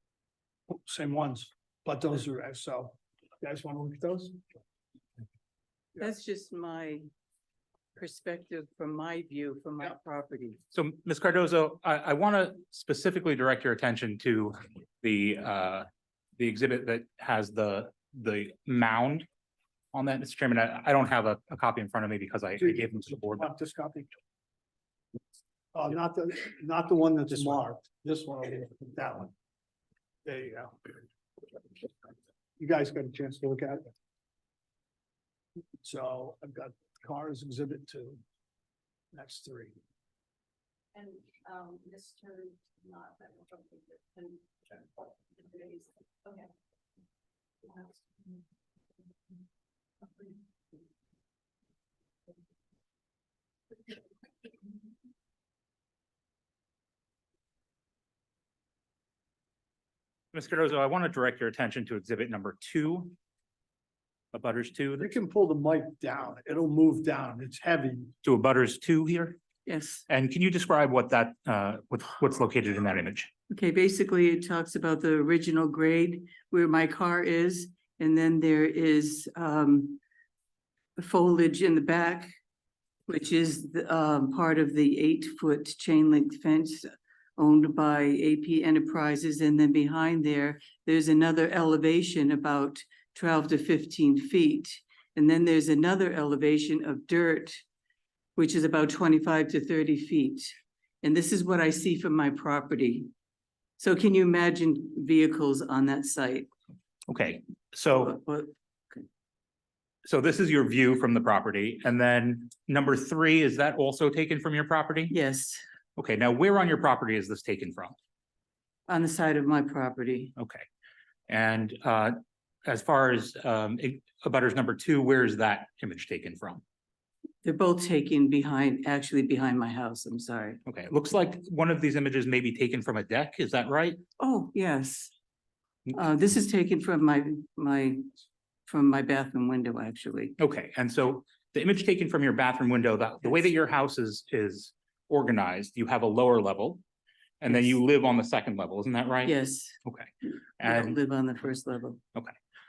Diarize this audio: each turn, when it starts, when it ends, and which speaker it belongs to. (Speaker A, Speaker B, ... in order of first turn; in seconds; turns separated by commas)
Speaker A: 0.7-4.4, Speaker B: 6.0-7.0, Speaker B: 8.0-10.6, Speaker C: 10.7-15.9, Speaker C: 16.4-19.3, Speaker C: 19.9-23.5, Speaker A: 22.6-24.1, Speaker A: 25.7-29.3, Speaker A: 30.3-31.0, Speaker A: 32.6-33.9, Speaker A: 35.8-38.2, Speaker A: 39.1-39.8, Speaker D: 41.0-44.8, Speaker D: 45.4-46.5, Speaker D: 47.7-48.0, Speaker C: 60.3-63.1, Speaker C: 64.3-65.1, Speaker A: 65.0-68.1, Speaker C: 68.2-69.4, Speaker B: 69.7-70.0, Speaker C: 70.1-73.3, Speaker B: 73.5-80.0, Speaker B: 81.0-82.3, Speaker B: 83.1-97.6, Speaker B: 98.4-103.1, Speaker B: 103.8-106.5, Speaker C: 107.1-108.2, Speaker B: 107.9-109.0, Speaker C: 110.1-115.2, Speaker B: 115.1-115.6, Speaker C: 116.0-118.0, Speaker B: 118.9-120.3, Speaker C: 120.4-120.7, Speaker C: 121.3-126.6, Speaker B: 127.4-130.6, Speaker C: 130.7-134.0, Speaker B: 134.2-135.1, Speaker B: 135.9-138.0, Speaker B: 138.7-140.4, Speaker C: 140.4-146.8, Speaker C: 147.4-151.0, Speaker B: 147.5-147.8, Speaker B: 149.2-149.8, Speaker B: 150.6-152.0